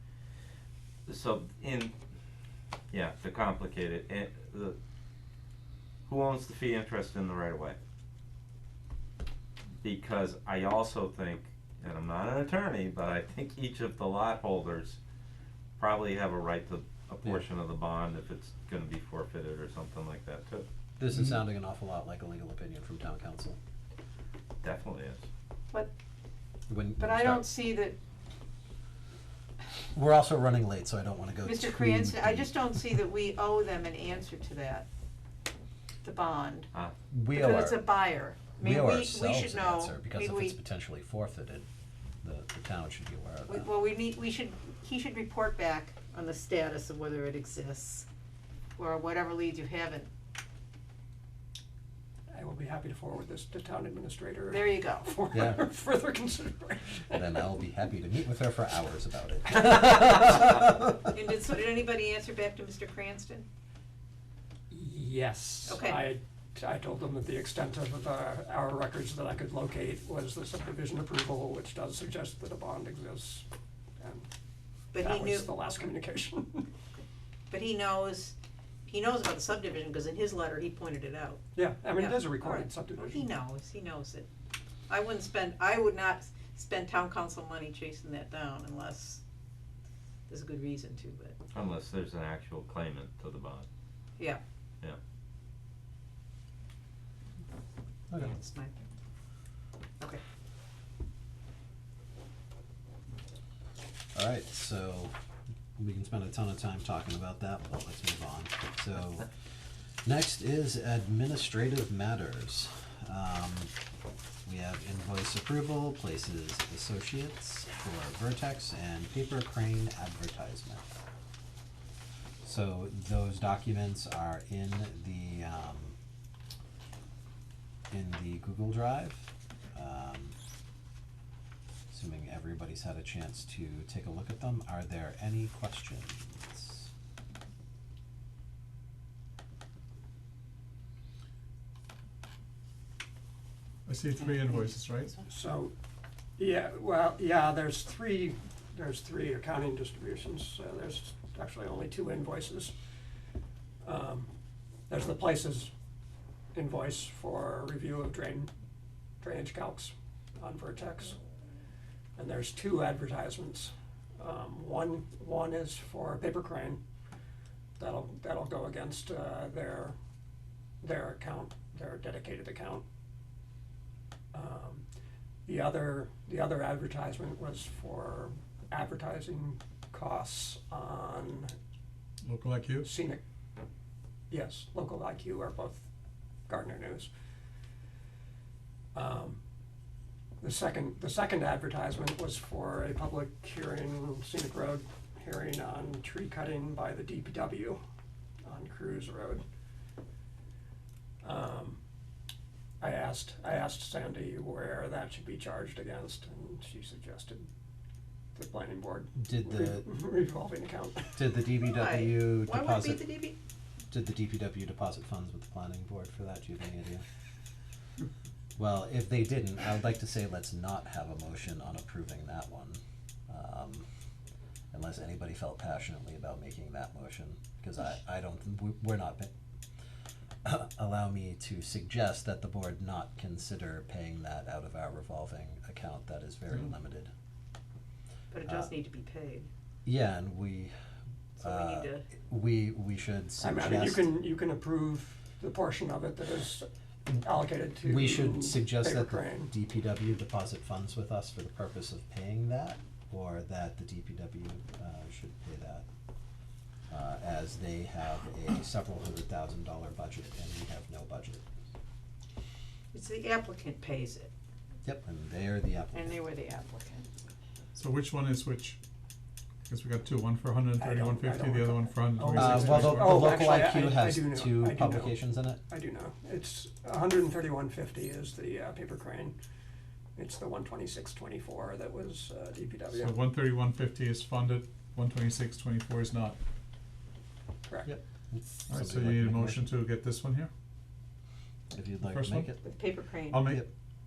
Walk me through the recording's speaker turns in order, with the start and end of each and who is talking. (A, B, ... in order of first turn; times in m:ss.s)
0:01.1-0:01.9 A
0:02.9-0:04.8 A
0:06.1-0:07.8 A
0:09.8-0:15.0 A
0:15.8-0:20.7 A
0:21.0-0:23.6 B
0:24.6-0:25.2 A
0:26.7-0:27.5 B
0:27.0-0:28.0 C
0:29.9-0:32.8 B
0:31.4-0:34.9 C
0:36.0-0:36.7 C
0:37.1-0:37.9 B
0:37.3-0:40.6 C
0:38.6-0:41.7 B
0:42.2-0:43.7 B
0:43.5-0:48.1 C
0:48.8-0:50.1 C
0:52.3-0:57.4 D
0:54.5-0:55.2 C
0:55.3-0:55.6 B
0:57.1-1:01.1 B
1:01.1-1:03.5 C
1:04.7-1:13.5 D
1:05.6-1:06.1 C
1:14.0-1:14.3 D
1:14.9-1:15.7 C
1:15.0-1:16.7 D
1:17.5-1:18.4 C
1:18.9-1:21.4 C
1:21.6-1:23.3 D
1:22.0-1:24.3 C
1:24.9-1:29.2 C
1:30.3-1:31.4 C
1:31.5-1:33.7 A
1:38.2-1:38.8 C
1:44.1-1:45.1 B
1:45.8-1:49.3 B
1:50.0-1:53.7 B
1:54.4-2:00.9 B
2:02.4-2:06.0 B
2:07.9-2:10.4 B
2:11.9-2:16.9 B
2:23.9-2:25.2 E
2:25.2-2:25.7 D
2:26.4-2:32.7 D
2:33.8-2:34.3 D
2:34.9-2:35.7 D
2:36.5-2:38.5 D
2:39.2-2:41.2 D
2:42.2-2:46.8 D
2:47.8-2:50.0 D
2:50.8-2:52.8 D
2:54.3-2:54.9 D
2:55.5-3:01.5 D
3:02.2-3:02.9 E
3:02.8-3:03.2 D
3:04.3-3:05.8 D
3:06.5-3:07.1 D
3:09.0-3:09.4 D
3:10.4-3:17.8 D
3:18.4-3:19.4 D
3:21.2-3:21.8 D
3:22.8-3:27.5 D
3:28.4-3:31.2 D
3:29.2-3:29.9 B
3:31.2-3:33.0 B
3:31.7-3:33.4 C
3:33.9-3:37.0 B
3:38.6-3:43.9 B
3:44.7-3:49.3 B
3:50.4-3:57.1 B
3:58.3-3:59.5 C
3:58.4-3:58.7 B
3:59.8-4:00.7 B
4:01.4-4:02.1 C
4:01.4-4:04.1 B
4:03.4-4:09.5 D
4:07.8-4:15.9 B
4:16.9-4:21.4 B
4:22.9-4:24.3 C
4:24.8-4:26.2 B
4:25.9-4:27.1 C
4:27.8-4:28.8 E
4:29.7-4:33.5 E
4:30.8-4:35.2 D
4:32.3-4:35.6 B
4:35.7-4:39.4 D
4:40.2-4:43.2 D
4:42.9-4:46.4 E
4:47.6-4:47.9 D
4:47.9-4:49.7 B
4:48.7-4:50.5 E
4:51.7-4:52.6 B
4:52.0-4:52.5 E
4:52.6-4:53.4 C
4:53.3-4:53.7 E